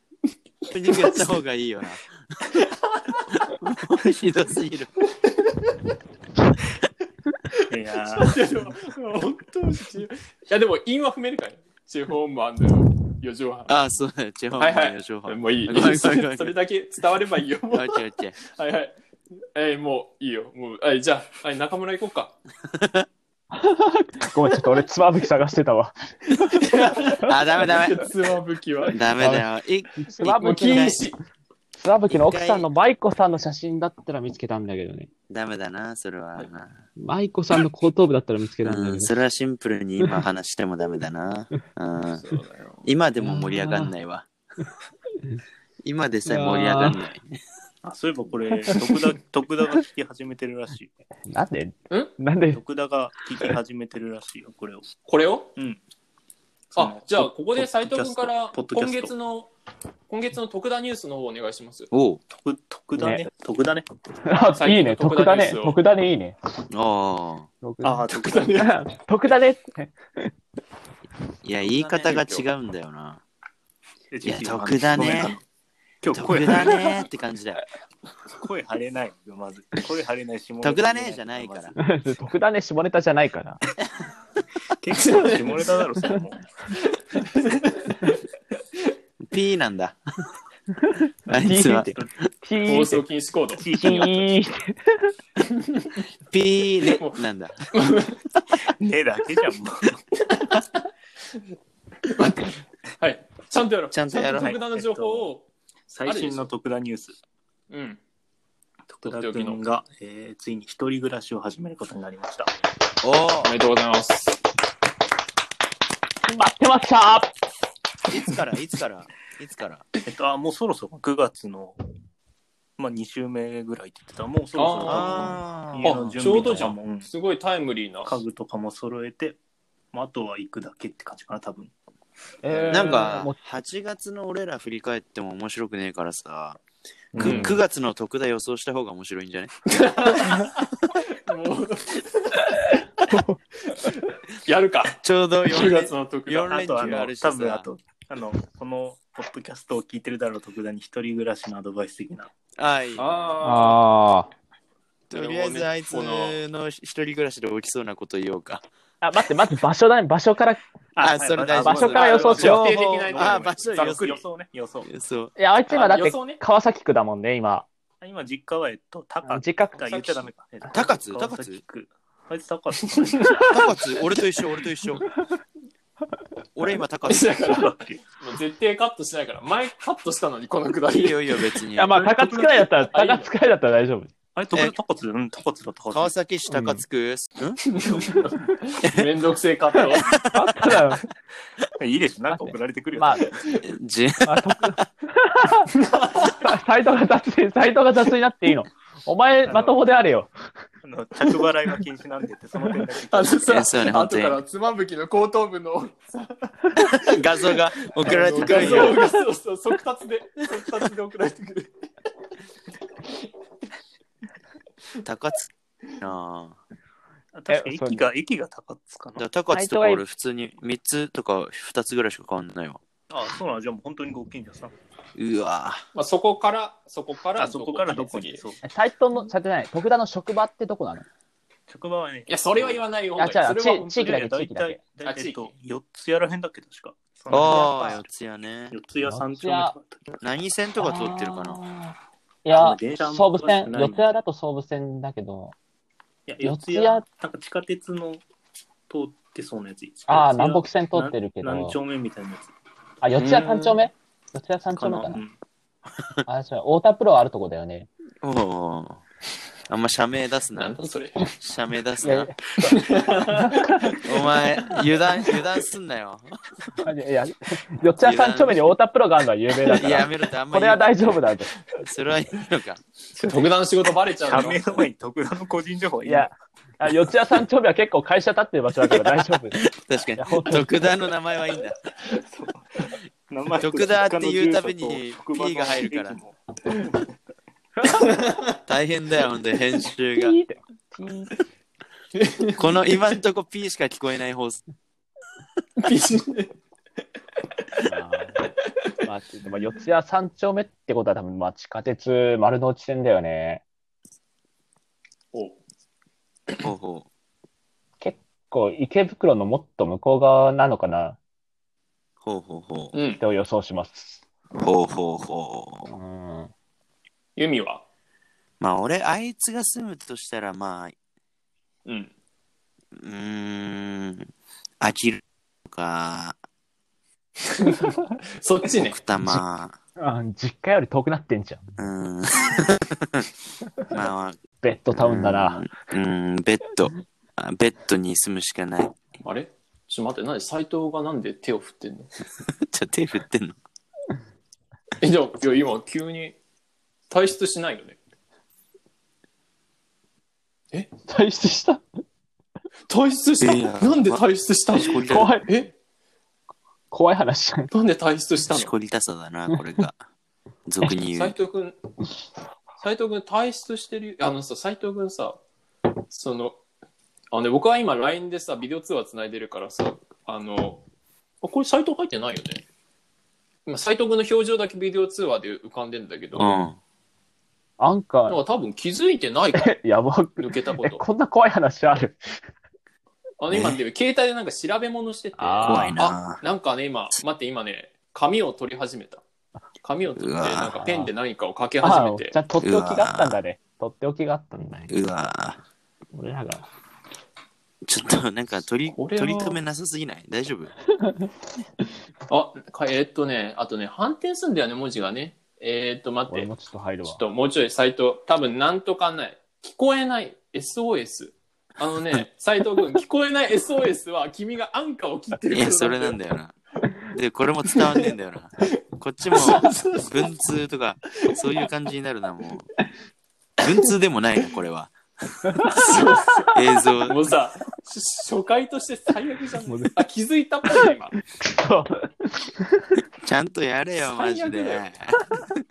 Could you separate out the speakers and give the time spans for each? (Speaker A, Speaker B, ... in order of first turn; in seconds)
Speaker A: 0.7-2.2, 3.5-4.9, 13.7-16.6, 17.7-18.4, 22.7-23.1, 27.3-28.1, 28.9-31.0, 32.1-32.7, 35.3-36.8, 38.6-42.2, 42.8-44.3, 45.8-47.4, 61.9-62.2, 66.7-67.5, 71.4-73.2, 74.2-75.3, 76.1-77.6, 80.6-81.8, 89.2-90.0, 91.3-92.1, 96.3-97.7, 103.9-104.6, 113.0-113.5, 118.1-119.9, 124.8-126.0, 132.7-136.6, 137.2-139.6, 145.0-147.7, 152.6-153.2, 155.1-158.6, 161.0-164.1, 164.8-165.4, 170.7-171.6, 173.5-175.1, 176.6-177.4, 180.9-182.3, 185.9-189.1, 189.9-190.8, 193.6-194.8, 203.5-204.4, 207.1-209.0, 215.0-216.6, 219.2-222.8, 225.2-225.8, 237.3-238.8, 240.2-241.6, 258.2-259.0, 259.7-260.8, 261.4-262.4, 264.0-266.3, 268.0-268.8, 269.8-270.9, 271.8-272.8, 279.5-281.8, 283.6-286.2, 288.7-290.4, 292.6-294.6, 306.6-307.1, 312.2-313.0, 314.6-315.9, 318.6-320.9, 323.0-324.3, 324.8-326.4, 328.8-329.8, 331.8-332.9, 333.9-334.4, 334.9-339.0, 342.6-343.6, 353.4-354.3, 354.8-355.3, 358.5-360.0, 360.7-361.4, 376.3-376.8, 383.5-383.8, 385.6-386.4, 390.2-390.8, 392.6-393.4, 394.9-395.6, 397.9-400.7, 415.5-416.5, 417.1-422.6, 423.6-424.9, 426.6-427.2, 433.2-435.2
Speaker B: 7.7-8.4, 47.8-50.9, 52.5-54.9, 55.6-55.8, 56.8-59.1, 62.3-63.9, 67.8-68.7, 74.1-75.4, 76.0-76.8, 78.4-81.8, 84.8-86.5, 93.5-94.4, 98.5-100.0, 104.3-105.3, 105.9-107.2, 108.9-112.5, 120.0-121.8, 122.8-127.1, 128.1-129.4, 129.9-131.7, 137.1-137.6, 146.5-152.3, 161.0-164.9, 168.0-173.5, 177.4-178.0, 182.0-182.9, 184.3-186.1, 191.8-193.5, 199.4-199.8, 200.8-203.5, 208.4-209.0, 217.3-219.2, 223.1-224.7, 227.4-228.6, 231.7-232.9, 233.9-238.0, 238.7-240.2, 242.5-244.2, 246.3-248.2, 248.9-252.5, 254.9-255.3, 274.2-276.3, 282.2-287.0
Speaker C: 8.1-13.8, 14.6-18.0, 18.5-18.9, 19.6-22.4, 26.5-29.0, 30.2-31.2, 42.1-42.9, 55.1-55.5, 56.8-59.5, 60.1-61.9, 64.6-65.8, 68.1-68.7, 71.6-72.5, 85.0-85.7, 87.1-88.2, 92.7-93.6, 96.9-97.2, 97.7-98.2, 100.3-100.8, 102.1-105.5, 106.0-106.5, 107.7-108.0, 109.0-109.6, 113.4-114.4, 124.5-125.3, 125.8-128.2, 132.5-133.2, 137.2-137.6, 139.8-140.6, 141.2-142.8, 143.7-146.7, 153.0-153.8, 155.1-156.4, 161.8-164.2, 165.7-166.4, 169.8-170.2, 177.1-181.6, 182.9-183.3, 187.7-190.1, 195.9-196.3, 203.0-207.0, 207.9-211.7, 225.9-228.4, 232.3-234.1, 235.1-235.4, 253.2-253.8, 260.6-261.3, 262.6-264.0, 273.1-274.7, 292.2-292.6, 295.8-296.5, 305.3-305.6, 312.9-313.2, 317.4-317.8, 321.9-322.1, 327.6-329.0, 339.2-342.1, 345.0-346.4, 347.1-348.0, 352.9-355.7, 357.7-358.7, 361.1-361.8, 362.8-365.4, 366.1-366.6, 367.3-370.8, 371.4-372.6, 373.7-376.6, 378.3-379.8, 380.4-381.0, 383.4-389.2, 389.8-392.4, 398.9-399.6, 402.3-406.5, 407.1-416.2, 419.4-420.3, 425.7-431.1, 434.0-434.8
Speaker D: 23.5-26.6, 29.2-31.0, 31.8-35.1, 37.0-39.2, 43.2-43.9, 46.3-47.0, 51.3-52.6, 63.0-63.3, 64.2-66.4, 67.6-70.3, 81.8-83.6, 90.9-93.0, 93.7-95.1, 116.3-117.3, 132.4-133.4, 143.1-143.4, 153.4-154.3, 159.0-160.6, 161.5-162.7, 165.4-167.7, 169.3-170.3, 181.8-184.1, 186.5-186.8, 190.3-191.0, 192.3-193.3, 194.2-195.7, 196.4-200.3, 217.5-218.0, 219.5-220.0, 228.6-231.1, 233.2-234.8, 237.4-237.9, 239.0-239.7, 240.8-245.6, 246.4-247.1, 250.1-251.8, 253.0-255.2, 256.3-257.9, 262.0-262.8, 263.4-263.7, 266.8-271.5, 276.1-279.6, 280.2-280.7, 290.1-291.4, 297.8-298.5, 299.0-303.6, 308.0-311.2, 313.2-314.2, 315.9-316.5, 330.0-331.6, 334.6-335.6, 351.1-351.8, 355.0-355.7, 356.9-357.7, 377.8-378.4, 379.6-382.2, 385.4-386.0, 390.7-391.1, 391.8-394.9, 396.1-396.7, 406.3-407.2, 430.7-432.6